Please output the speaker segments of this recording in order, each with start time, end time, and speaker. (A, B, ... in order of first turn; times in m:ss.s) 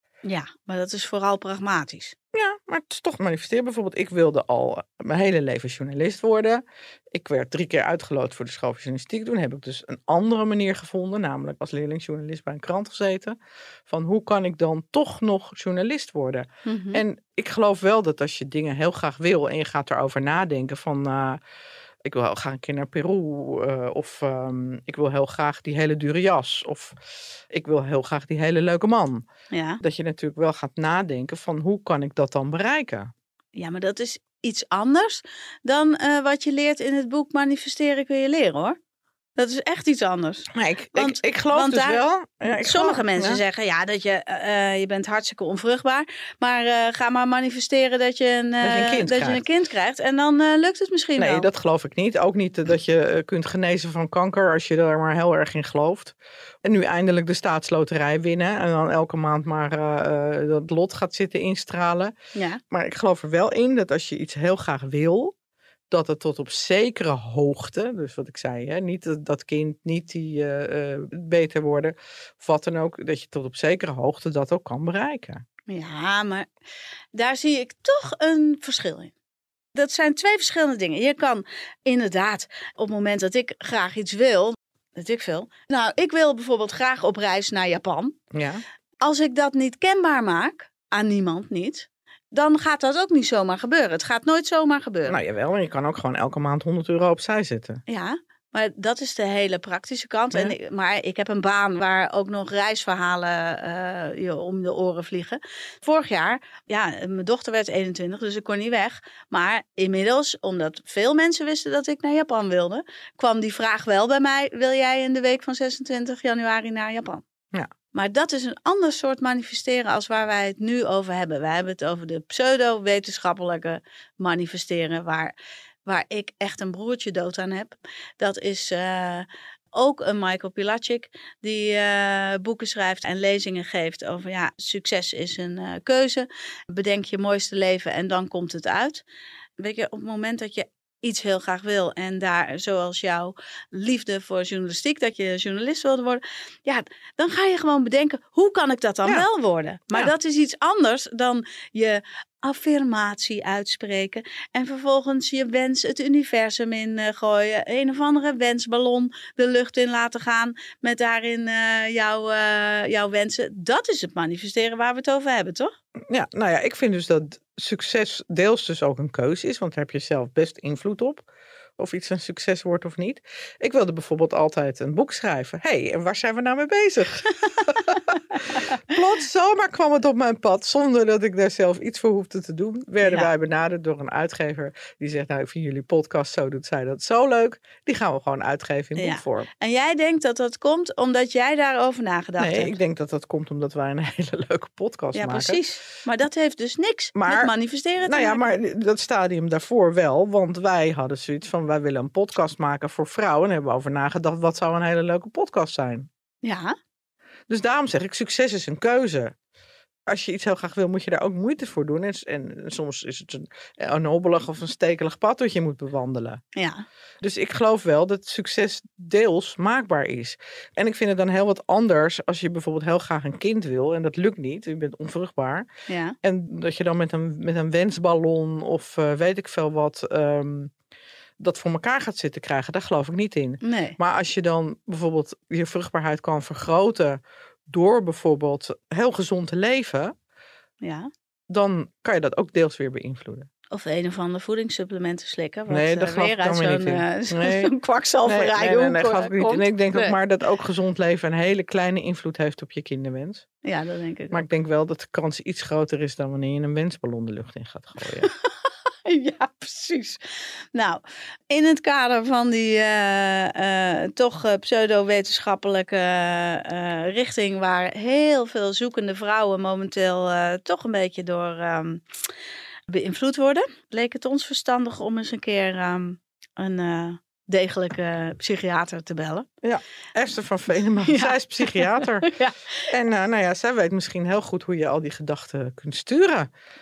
0:00.2-0:02.1 A
0:02.3-0:21.4 B
0:16.6-0:17.0 A
0:22.0-0:27.0 B
0:27.5-0:29.2 B
0:29.5-0:29.8 A
0:29.8-0:33.1 B
0:33.5-0:38.8 A
0:39.4-0:42.0 A
0:40.5-0:43.4 B
0:42.6-0:51.5 A
0:48.6-0:49.4 B
0:51.2-1:02.1 B
1:02.3-1:02.6 A
1:02.7-1:05.3 B
1:05.9-1:15.4 B
1:15.7-1:16.5 A
1:17.1-1:19.1 A
1:19.7-1:28.2 A
1:28.3-1:28.6 B
1:29.0-1:35.2 A
1:35.0-1:37.8 B
1:37.9-1:57.2 A
1:57.9-2:05.3 A
2:05.8-2:19.0 A
2:19.6-2:45.7 A
2:46.1-2:51.2 B
2:51.8-3:09.5 B
3:03.0-3:03.3 A
3:09.0-3:12.7 A
3:12.4-3:15.6 B
3:15.1-3:18.4 A
3:17.1-3:17.5 B
3:18.0-3:26.1 B
3:26.4-3:26.8 A
3:27.5-3:29.3 B
3:30.1-3:36.4 B
3:36.6-3:36.8 A
3:37.2-3:45.7 B
3:45.9-3:46.1 A
3:46.2-3:50.7 B
3:51.4-4:00.1 B
3:53.6-3:54.0 A
4:00.8-4:01.1 A
4:01.5-4:03.5 B
4:03.7-4:10.2 A
4:05.7-4:07.7 B
4:08.2-4:13.4 B
4:13.6-4:14.4 A
4:14.3-4:18.3 B
4:19.0-4:32.0 A
4:32.9-4:39.5 A
4:39.6-4:42.3 B
4:41.0-4:42.7 A
4:42.9-4:46.5 B